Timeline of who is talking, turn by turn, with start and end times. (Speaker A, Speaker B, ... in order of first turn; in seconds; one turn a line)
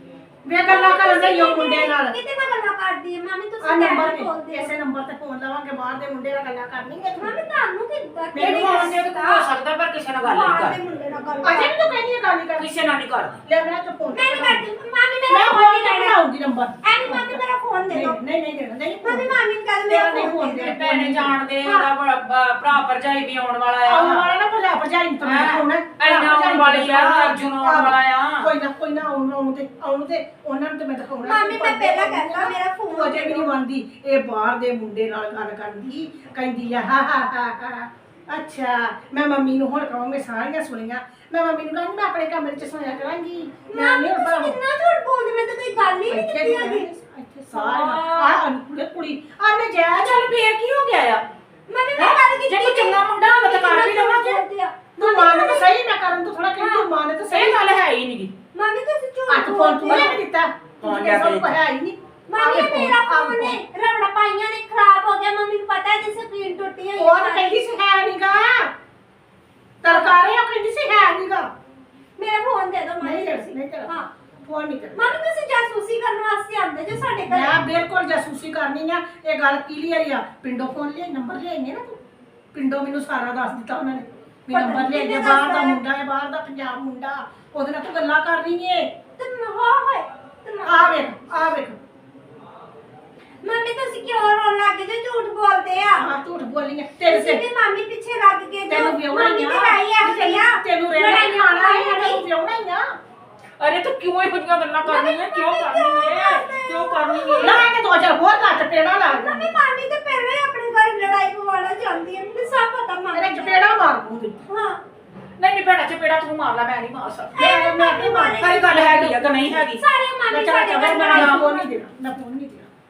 Speaker A: 0.5-2.2
Speaker B: 0.7-4.8
Speaker A: 3.6-7.3
Speaker B: 7.2-9.6
Speaker C: 8.3-10.8
Speaker A: 8.4-8.9
Speaker B: 10.2-11.9
Speaker A: 11.4-12.8
Speaker C: 12.6-13.4
Speaker A: 13.4-14.7
Speaker B: 14.1-16.2
Speaker A: 15.3-21.4
Speaker B: 16.8-18.2
Speaker B: 19.0-20.8
Speaker C: 20.7-24.3
Speaker B: 21.6-21.9
Speaker A: 23.9-44.6
Speaker C: 25.2-28.5
Speaker B: 31.2-33.6
Speaker B: 43.7-46.9
Speaker A: 46.1-50.4
Speaker C: 47.5-48.4
Speaker C: 49.9-51.3
Speaker B: 51.7-55.8
Speaker C: 52.0-54.4
Speaker A: 55.0-57.8
Speaker B: 56.6-56.9
Speaker C: 57.3-58.3
Speaker B: 58.5-60.2
Speaker A: 59.3-63.6
Speaker C: 60.8-61.6
Speaker B: 62.3-67.7
Speaker A: 67.0-68.7
Speaker A: 69.8-71.5
Speaker B: 69.9-70.2
Speaker B: 72.2-74.1
Speaker A: 73.0-73.9
Speaker A: 74.4-75.2
Speaker B: 75.0-77.6
Speaker A: 77.3-82.0
Speaker A: 82.5-88.9
Speaker B: 84.5-85.8
Speaker B: 89.2-91.1
Speaker A: 90.6-91.8
Speaker B: 93.4-96.1
Speaker A: 96.0-97.4
Speaker B: 97.0-102.2
Speaker A: 98.7-102.8
Speaker C: 103.6-107.7
Speaker B: 104.8-107.7
Speaker A: 107.4-109.5
Speaker B: 109.0-113.7
Speaker A: 113.1-114.4
Speaker B: 114.5-114.8
Speaker C: 115.4-117.5
Speaker B: 117.4-121.8
Speaker A: 117.4-119.3
Speaker C: 118.3-119.8
Speaker A: 120.3-122.7
Speaker C: 121.1-121.5